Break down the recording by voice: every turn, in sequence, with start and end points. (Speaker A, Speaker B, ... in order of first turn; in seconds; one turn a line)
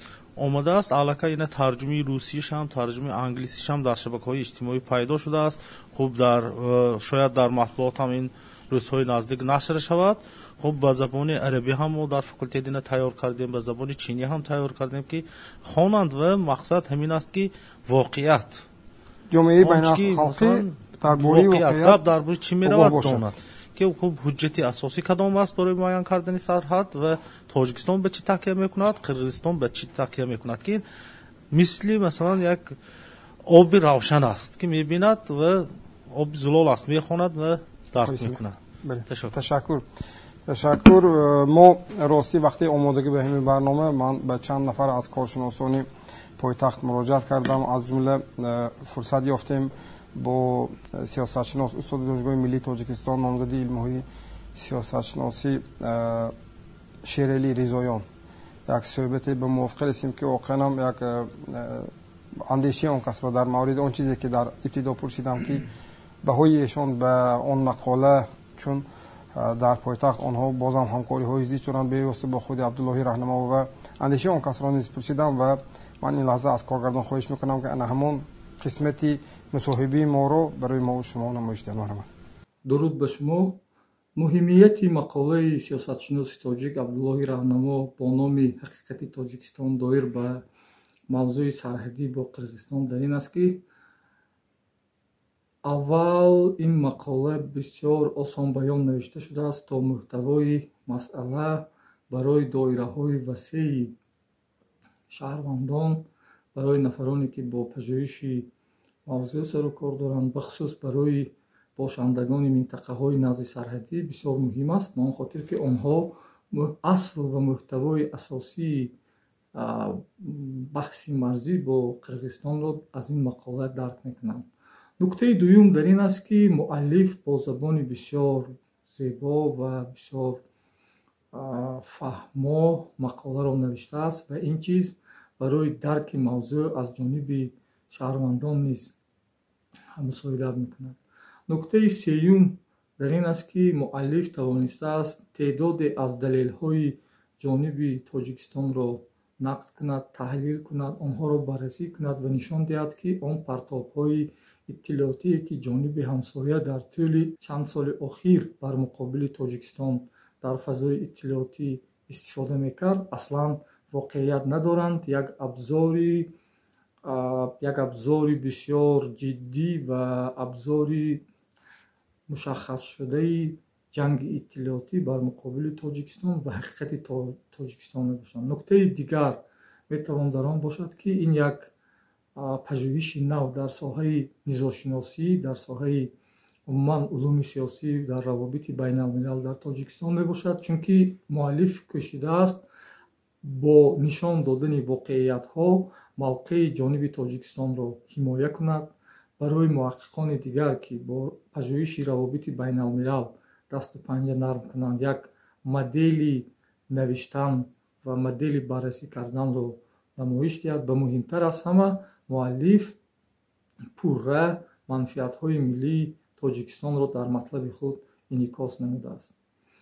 Speaker A: 0.4-18.6
Speaker B: 19.3-22.0
Speaker A: 19.6-30.8
Speaker B: 22.6-23.3
Speaker A: 31.5-32.8
Speaker A: 33.5-38.6
Speaker B: 38.0-39.8
Speaker A: 39.1-39.3
Speaker B: 40.5-45.9
Speaker B: 46.4-56.3
Speaker B: 57.0-58.0
Speaker B: 58.7-61.9
Speaker B: 62.5-65.6
Speaker B: 66.2-82.1
Speaker C: 82.7-83.6
Speaker C: 84.2-90.4
Speaker C: 91.1-93.6
Speaker C: 95.6-104.0
Speaker C: 105.1-108.5
Speaker C: 109.0-118.9
Speaker C: 119.5-124.5
Speaker C: 125.0-130.4
Speaker C: 131.3-138.9
Speaker C: 140.0-166.3
Speaker C: 167.0-171.2
Speaker C: 172.3-181.7
Speaker C: 182.4-186.1
Speaker C: 186.7-192.6
Speaker C: 193.4-213.0
Speaker C: 214.0-219.3